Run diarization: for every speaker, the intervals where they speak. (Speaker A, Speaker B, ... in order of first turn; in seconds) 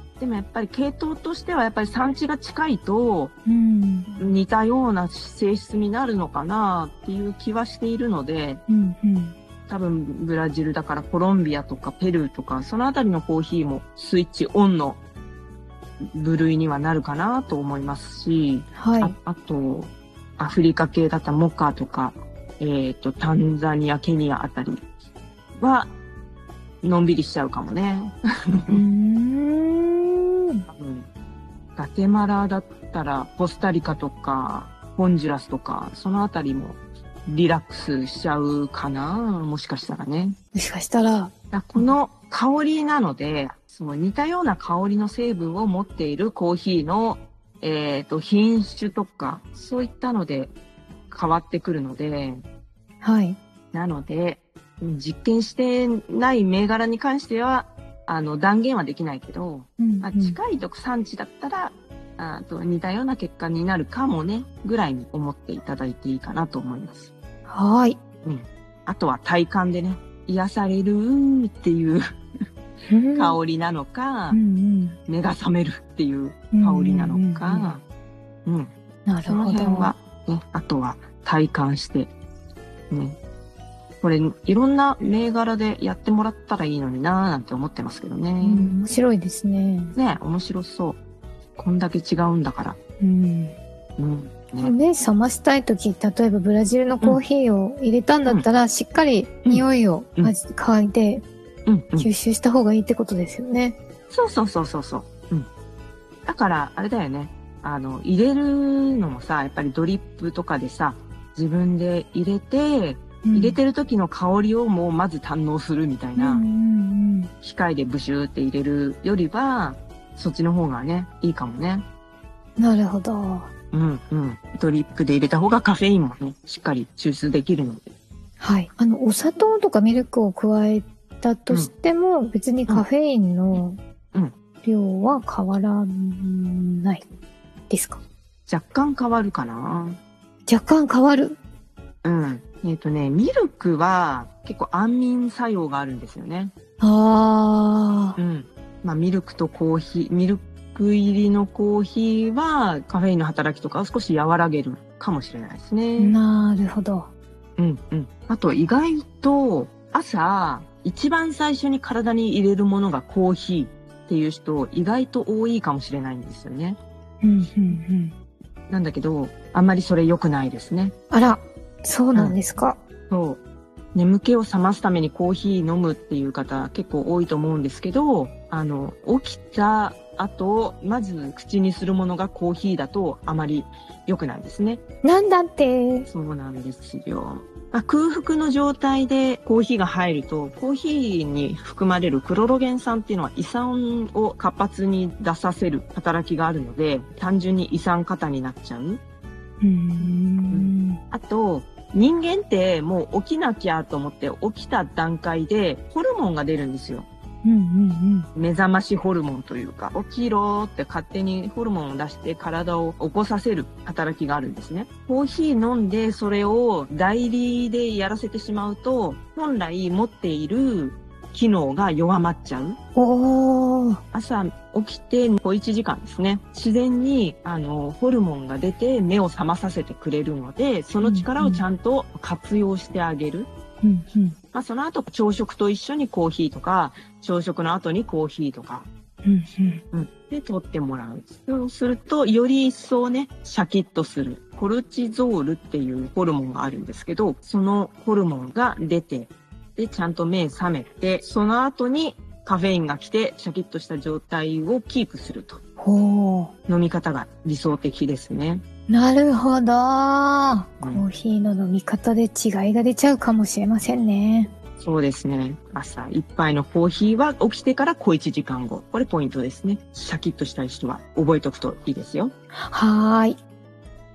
Speaker A: 0.2-3.4, 4.2-8.6, 9.7-15.0, 16.1-24.8, 25.6-25.9, 26.8-28.8, 30.7-31.1, 31.8-40.4, 41.5-50.5, 51.1-52.4, 53.7-67.1, 68.2-72.0, 73.1-74.4, 75.1-77.8, 78.5-78.7, 79.2-82.1, 82.9-83.2, 84.0-88.8, 90.0-91.0, 91.6-92.8, 94.0-94.7, 101.7-102.1, 104.1-105.5, 106.3-116.5, 117.4-121.8, 123.7-127.8, 138.5-140.0, 142.0-146.5, 148.2-156.2, 157.6-166.8, 168.7-170.9, 173.1-173.4, 173.9-184.8, 186.1-199.0, 200.0-207.1, 208.3-222.8, 224.1-233.5, 234.5-238.9, 239.9-255.6, 256.7-258.6, 260.8-261.1, 264.8-272.3
Speaker B: 3.5-4.1, 8.7-9.3, 18.8-19.1, 28.7-30.6, 40.5-41.9, 53.0-53.4, 59.8-60.4, 67.5-68.0, 72.9-73.4, 74.3-75.0, 76.5-77.7, 79.1-79.9, 88.4-89.9, 93.0-93.6, 94.6-101.2, 102.0-103.8, 113.2-113.6, 116.2-117.3, 122.6-123.5, 128.4-133.8, 134.6-137.1, 137.7-138.0, 140.5-141.4, 146.8-148.2, 156.0-157.1, 167.2-168.1, 171.1-172.8, 185.0-186.1, 199.6-201.0, 207.4-208.3, 222.9-224.0, 231.0-231.6, 233.8-234.4, 239.2-239.8, 255.8-256.5, 258.9-264.5, 272.5-273.4